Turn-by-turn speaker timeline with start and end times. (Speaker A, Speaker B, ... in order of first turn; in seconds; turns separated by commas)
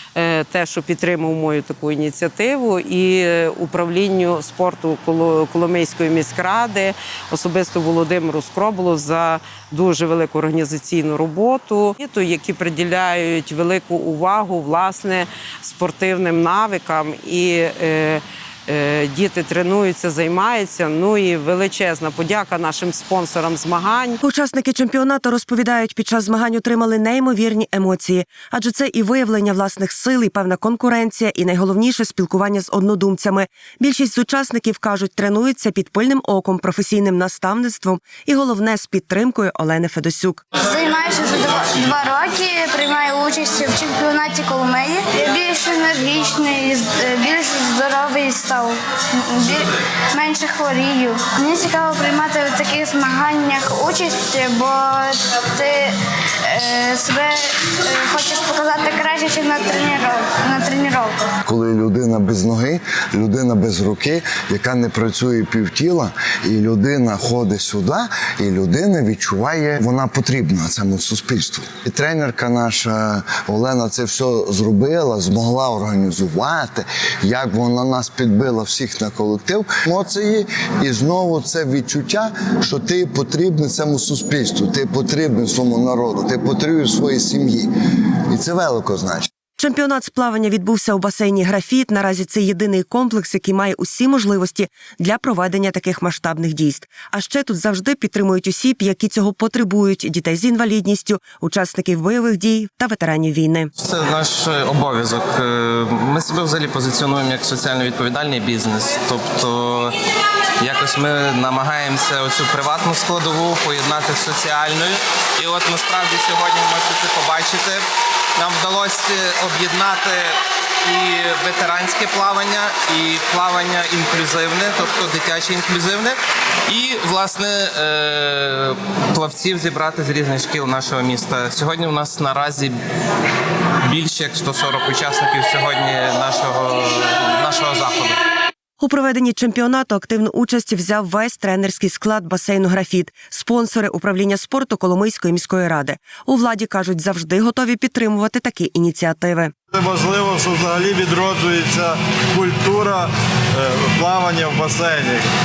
Speaker A: 0.2-24.2, Speaker B: 24.2-40.5, Speaker C: 40.5-61.2, Speaker D: 61.5-87.7, Speaker D: 88.3-89.3, Speaker B: 89.6-103.7, Speaker E: 103.8-109.9, Speaker E: 110.6-117.8, Speaker E: 118.4-132.8, Speaker E: 133.9-138.2, Speaker B: 138.8-149.5, Speaker F: 149.7-155.3